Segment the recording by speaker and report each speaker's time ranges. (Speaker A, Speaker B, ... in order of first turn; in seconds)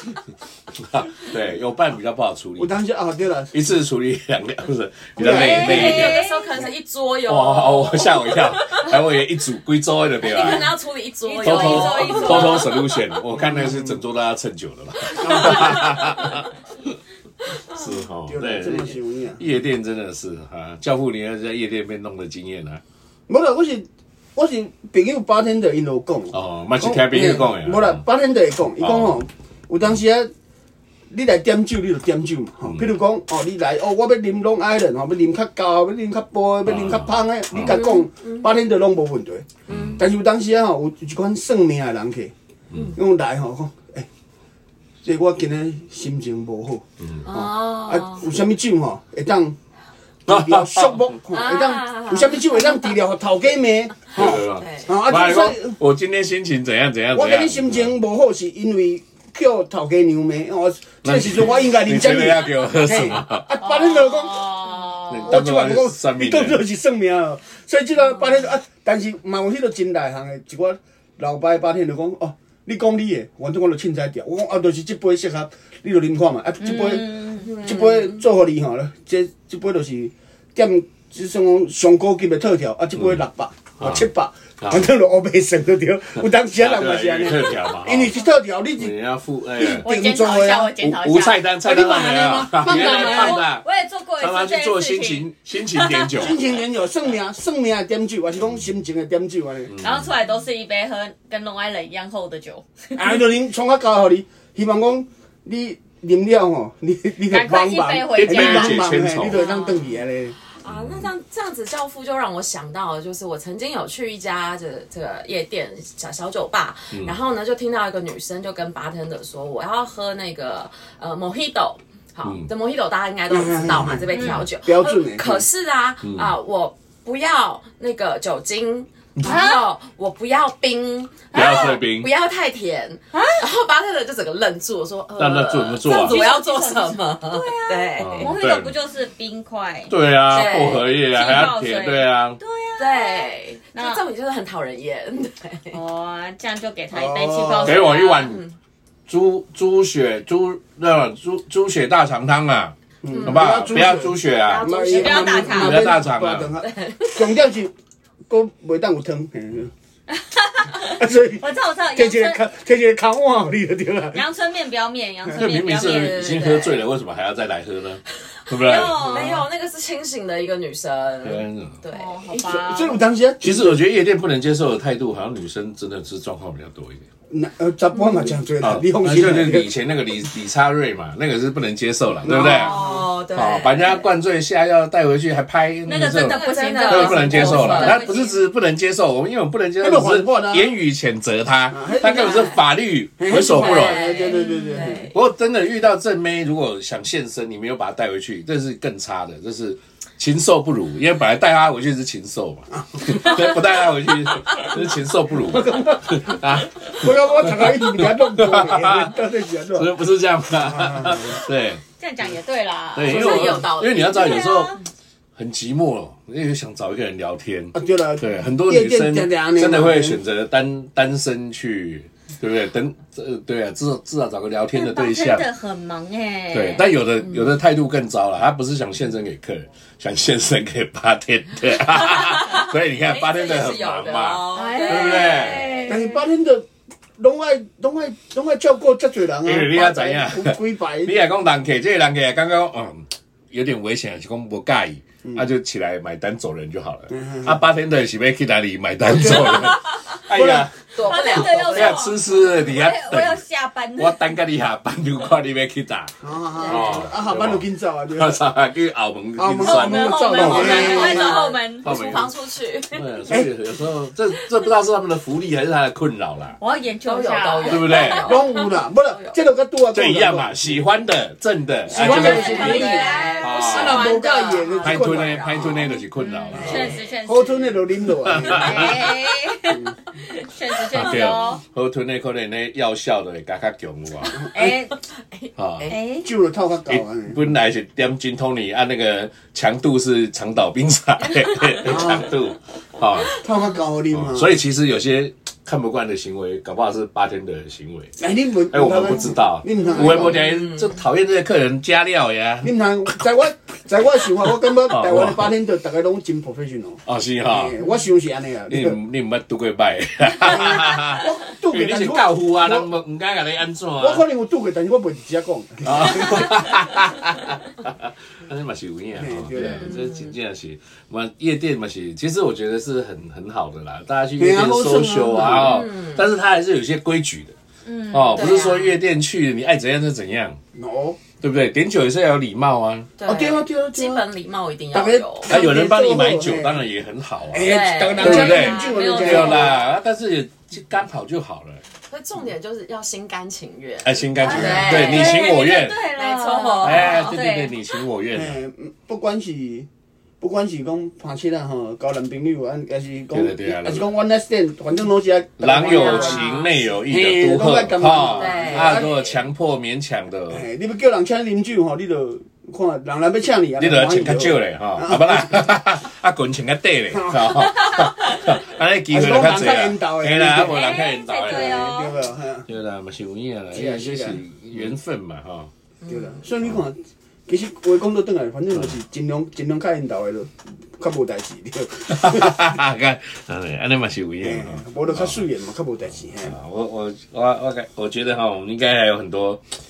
Speaker A: 0.8-2.7, 3.5-6.2, 7.3-10.7, 11.4-16.5, 17.7-22.8, 26.3-28.0, 28.8-29.2, 36.6-37.8, 39.7-40.0, 50.3-51.1, 54.1-57.9, 61.0-63.5, 65.0-66.6, 83.8-84.0, 84.6-84.9, 86.5-88.2, 88.8-89.9, 90.8-93.6, 94.2-96.4, 99.7-100.1, 108.2-109.5, 110.6-111.1, 116.9-117.2, 122.2-122.5, 126.0-126.3, 131.3-132.1, 135.2-136.2, 138.0-138.7, 139.9-142.4, 147.6-148.4, 149.1-152.7, 153.2-154.7, 155.3-156.5, 165.4-169.4, 171.2-171.8, 173.4-177.0, 178.6-182.8, 183.3-194.1, 195.1-209.2, 209.7-211.8, 212.9-214.8, 215.3-225.5, 226.5-235.7, 239.4-253.4, 253.9-261.1, 261.8-262.3, 262.9-266.6, 267.6-268.3, 269.9-274.1, 274.8-276.9, 278.3-279.0, 280.9-284.4, 285.6-285.9, 286.9-293.4, 294.1-298.1, 298.7-303.2, 304.8-305.5, 307.1-307.8, 308.7-314.2, 315.8-327.5, 328.1-330.6, 331.4-333.1, 335.4-341.8, 344.0-346.0, 346.8-348.6, 353.3-354.1, 355.6-360.6, 363.8-371.8, 372.7-375.7, 382.1-385.4, 386.4-389.6
Speaker B: 2.6-3.5, 5.2-6.0, 13.3-14.0, 15.1-16.1, 18.3-19.4, 23.3-30.3, 31.1-42.3, 43.0-44.1, 45.0-49.5, 50.3-55.8, 57.1-64.5, 65.2-89.0, 89.5-90.7, 91.7-93.4, 96.1-99.7, 103.0-110.3, 123.3-125.4, 146.9-147.8, 153.0-157.7, 158.3-159.7, 160.8-164.2, 172.4-173.8, 177.3-179.7, 182.2-183.0, 189.8-190.7, 191.7-192.6, 193.2-195.1, 202.9-203.5, 205.3-206.3, 206.9-209.9, 210.7-211.4, 217.7-220.2, 235.8-236.6, 237.2-241.2, 247.1-247.6, 249.0-249.8, 250.3-250.7, 256.2-258.4, 259.4-261.3, 263.3-263.5, 268.1-270.8, 271.9-275.9, 276.7-279.1, 279.7-279.9, 284.4-284.8, 286.2-287.5, 291.8-292.3, 293.4-294.5, 298.2-300.4, 302.6-309.0, 310.4-312.9, 314.0-316.5, 319.1-319.9, 324.4-325.7, 330.7-331.2, 333.3-334.2, 334.9-336.8, 337.5-339.8, 344.5-345.0, 348.3-349.9, 350.4-356.5, 357.1-359.1, 360.5-365.6, 367.1-367.9, 369.1-372.7, 373.7-374.9, 376.1-382.6, 384.4-386.6
Speaker C: 5.3-6.4, 11.2-12.8, 63.6-65.4, 76.6-77.5, 89.7-96.1, 99.8-103.2, 107.3-110.0, 129.2-129.6, 131.3-131.8, 133.1-133.4, 135.9-139.9, 141.0-144.0, 145.7-148.2, 154.4-156.0, 160.2-162.4, 164.1-166.3, 168.5-169.4, 171.9-173.0, 185.8-188.3, 194.2-194.9, 212.0-214.8, 224.7-226.8, 234.5-236.2, 251.0-254.2, 259.6-261.9, 266.6-268.1, 272.0-273.5, 275.8-281.6, 284.5-285.0, 285.9-286.3, 319.6-320.0, 327.9-328.6, 338.2-339.8, 344.4-347.7, 370.6-372.1
Speaker D: 5.4-8.9, 10.2-12.7, 37.6-38.5, 39.7-40.0, 47.2-48.2, 51.3-52.5, 54.6-55.0, 77.4-78.2, 110.6-138.3, 140.3-140.9, 142.8-145.8, 147.9-148.6, 153.1-153.5, 154.9-155.3, 156.6-157.3, 165.6-166.8, 168.7-172.6, 177.9-178.4, 182.2-184.0, 186.1-188.1, 193.4-195.2, 213.0-214.2, 227.2-227.5, 232.1-235.9, 250.9-252.2, 260.5-263.1, 267.0-269.4, 271.9-275.0, 276.5-277.0, 284.2-286.0, 291.4-291.8, 299.9-301.0, 325.4-326.3, 328.3-328.9, 333.2-335.6, 337.6-338.4, 342.1-345.6, 346.1-347.4, 355.8-356.8, 358.3-359.4, 376.0-376.4